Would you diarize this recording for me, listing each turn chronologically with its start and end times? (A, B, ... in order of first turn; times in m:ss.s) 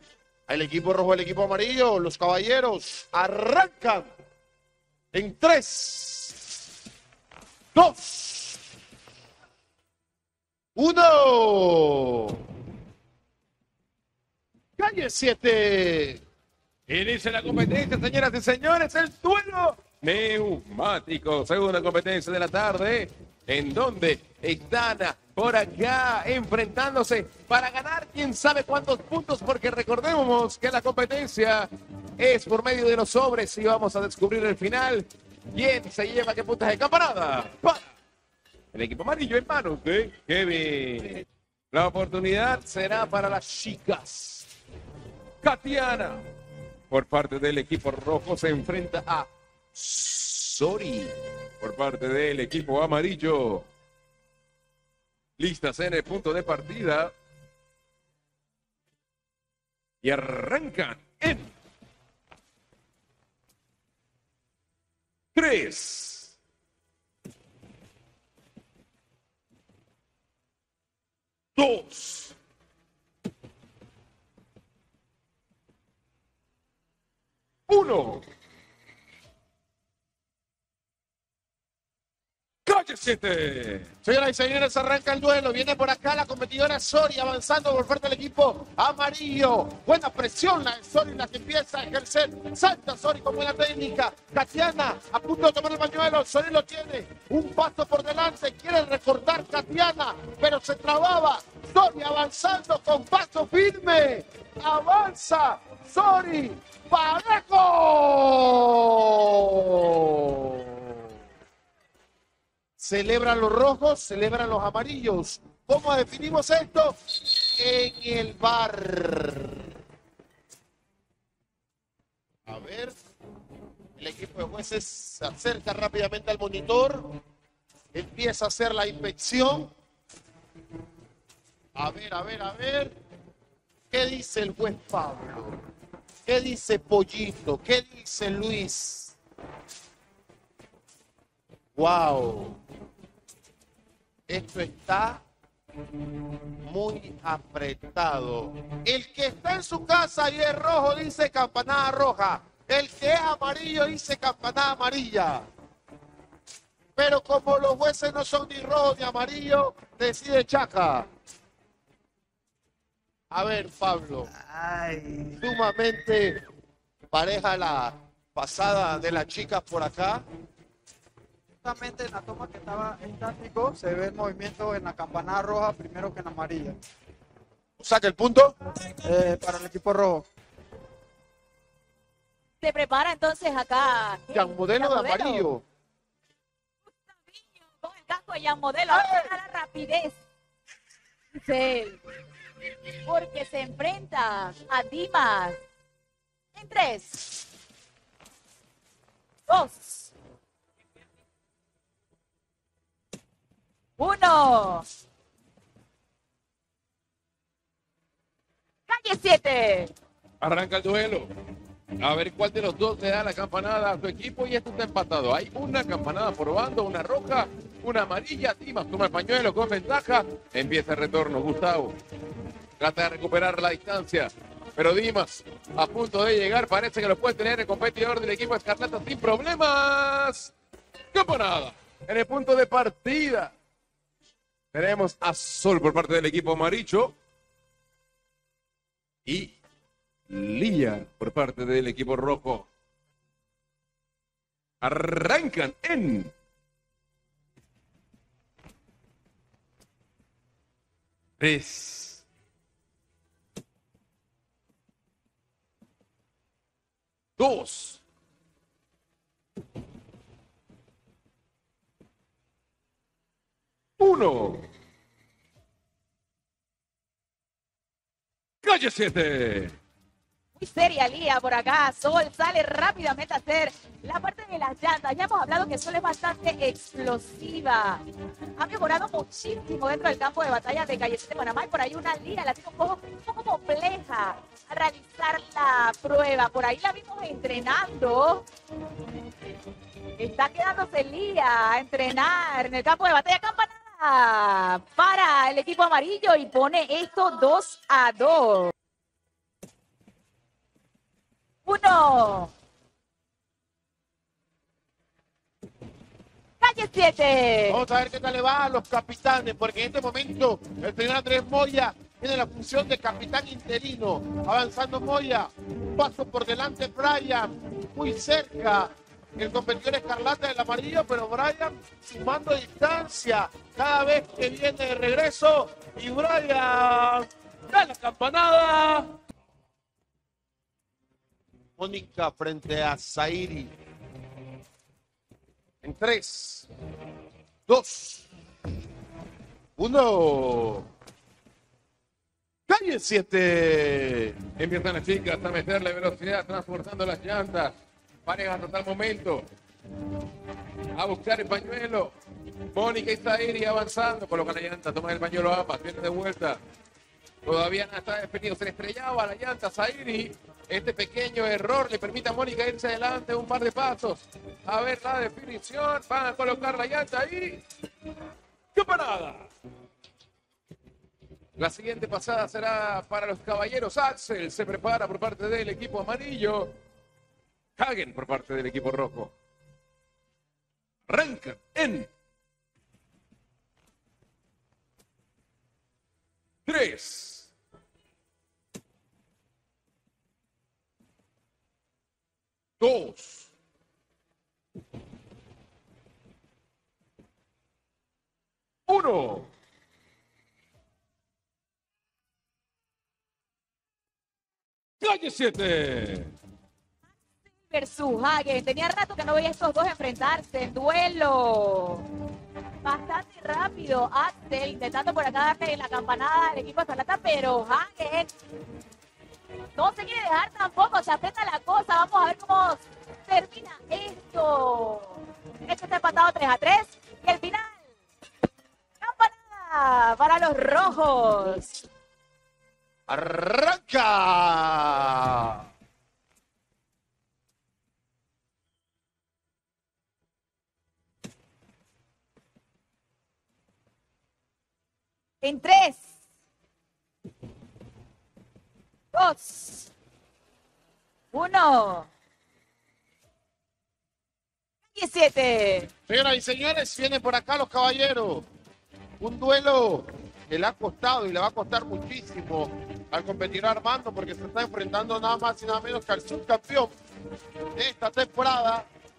0:00.5-0:04.1 A
0:05.1-0:06.4 A
0:07.7-0:08.6 A
0:10.8-0:12.4 A
0:14.8-0:16.2 A
0:16.9-0:37.9 B
0:38.7-0:44.5 B
0:45.4-0:46.2 B
0:46.9-0:53.7 B
0:55.4-0:57.1 B
1:00.0-1:01.5 B
1:05.3-1:06.3 B
1:11.6-1:12.3 B
1:17.7-1:18.2 B
1:22.6-1:23.9 B
1:24.0-1:50.7 A
1:52.8-1:59.6 A
2:02.4-2:02.9 A
2:04.0-2:07.1 A
2:07.9-2:09.7 A
2:11.8-2:13.0 A
2:13.9-2:15.6 A
2:16.2-2:19.2 A
2:21.8-2:22.6 A
2:24.3-2:25.2 A
2:26.6-2:35.4 A
2:37.0-2:41.1 A
2:43.3-2:44.3 A
2:44.4-2:45.3 C
2:45.4-2:46.4 A
2:47.1-2:50.2 A
2:51.6-2:56.8 C
2:57.8-2:58.5 A
2:59.0-3:00.2 C
3:02.6-3:05.5 D
3:04.3-3:05.6 A
3:06.9-3:10.2 D
3:11.3-3:12.0 D
3:13.0-3:15.6 D
3:16.5-3:17.4 D
3:19.5-3:20.1 D
3:24.0-3:24.8 D
3:28.9-3:29.9 D
3:30.4-3:31.3 B
3:32.0-3:42.0 B
3:42.8-3:50.5 B
3:51.1-3:53.5 B
3:54.7-3:57.1 B
3:59.2-3:59.5 B
4:00.3-4:02.7 B
4:04.8-4:06.3 B
4:11.4-4:12.2 B
4:17.4-4:18.0 B
4:24.0-4:24.6 B
4:28.6-4:29.7 B
4:30.6-4:38.0 D
4:38.6-4:48.4 D
4:50.2-4:58.7 D
5:01.6-5:02.5 D
5:06.6-5:07.8 D
5:07.7-5:27.2 A
5:27.7-5:29.1 B
5:31.8-5:33.7 A
5:35.8-5:36.7 A
5:37.7-5:38.2 A
5:39.8-5:40.9 A
5:42.7-5:44.4 A
5:44.6-5:47.7 B
5:48.2-5:49.5 B
5:50.9-5:52.1 B
5:52.7-5:56.6 B
5:57.4-6:07.6 B
6:08.7-6:09.5 B
6:11.6-6:16.7 B
6:17.8-6:19.3 B
6:21.1-6:22.1 B
6:26.6-6:27.5 B
6:32.8-6:33.5 B
6:38.9-6:39.5 B
6:45.0-6:46.3 B
6:47.7-6:52.0 D
6:52.8-6:58.3 D
6:59.8-7:07.8 D
7:09.0-7:11.8 D
7:13.1-7:15.6 A
7:25.4-7:26.0 D
7:29.1-7:29.9 D
7:31.3-7:32.1 D
7:34.9-7:35.9 D
7:36.1-7:38.4 A
7:39.2-7:46.9 A
7:47.8-7:48.9 A